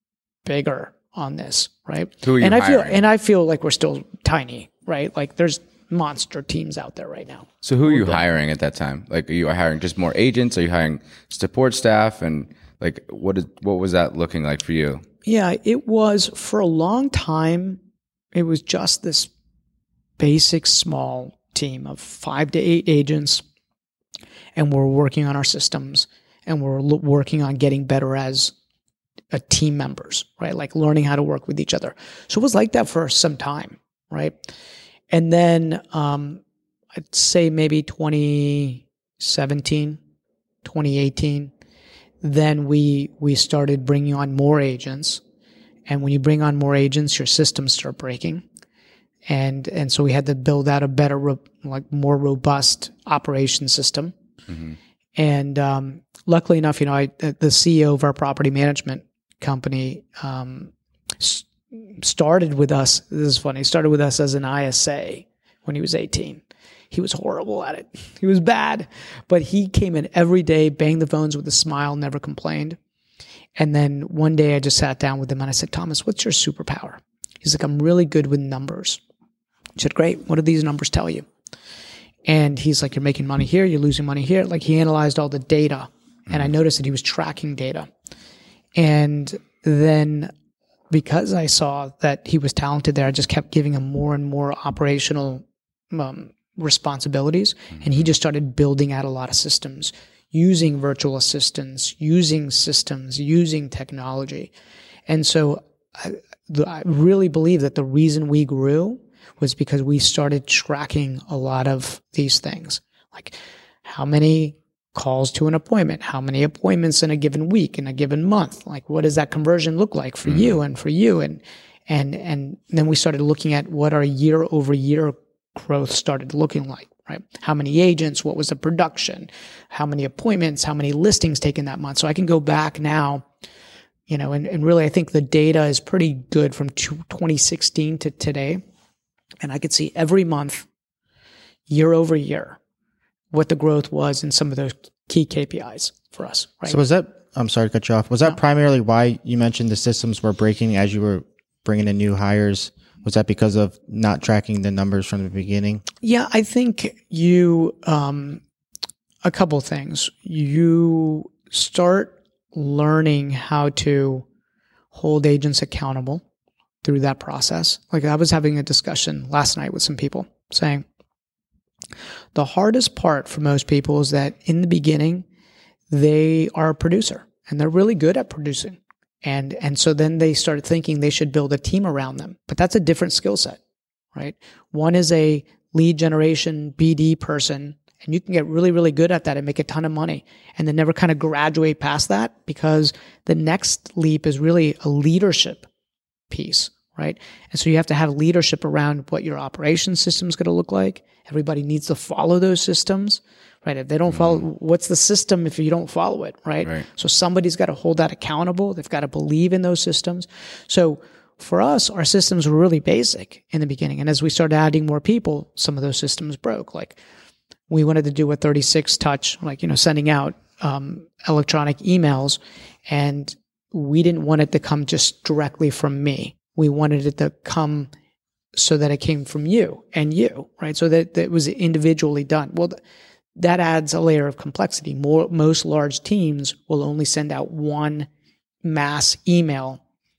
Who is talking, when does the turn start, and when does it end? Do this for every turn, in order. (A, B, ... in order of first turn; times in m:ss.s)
0:00.4-0:08.2 A
0:02.2-0:03.0 B
0:07.6-0:15.0 B
0:15.3-0:17.8 A
0:18.3-0:19.3 A
0:20.2-0:23.4 A
0:24.6-0:28.5 A
0:29.3-0:34.4 A
0:35.1-0:36.4 A
0:37.0-0:40.0 A
0:40.6-0:41.5 A
0:42.2-0:45.2 A
0:45.9-0:48.4 A
0:49.3-0:54.1 A
0:54.5-0:54.8 B
0:55.2-1:12.8 A
1:13.6-1:19.0 A
1:19.8-1:21.3 A
1:22.3-1:27.9 A
1:28.8-1:30.3 A
1:30.9-1:44.5 A
1:45.1-2:13.2 A
2:00.3-2:00.5 B
2:14.1-2:18.6 A
2:19.4-2:20.7 A
2:21.7-2:22.6 A
2:23.3-2:26.8 A
2:26.7-2:35.8 C
2:36.0-2:38.4 A
2:39.2-2:44.2 A
2:44.9-2:46.2 A
2:46.8-2:50.8 A
2:52.4-2:55.2 A
2:55.9-3:03.6 A
3:04.2-3:15.7 A
3:16.3-3:37.0 A
3:24.1-3:24.4 B
3:37.7-3:47.9 A
3:48.6-3:52.8 A
3:53.4-3:58.1 A
3:58.6-3:59.8 A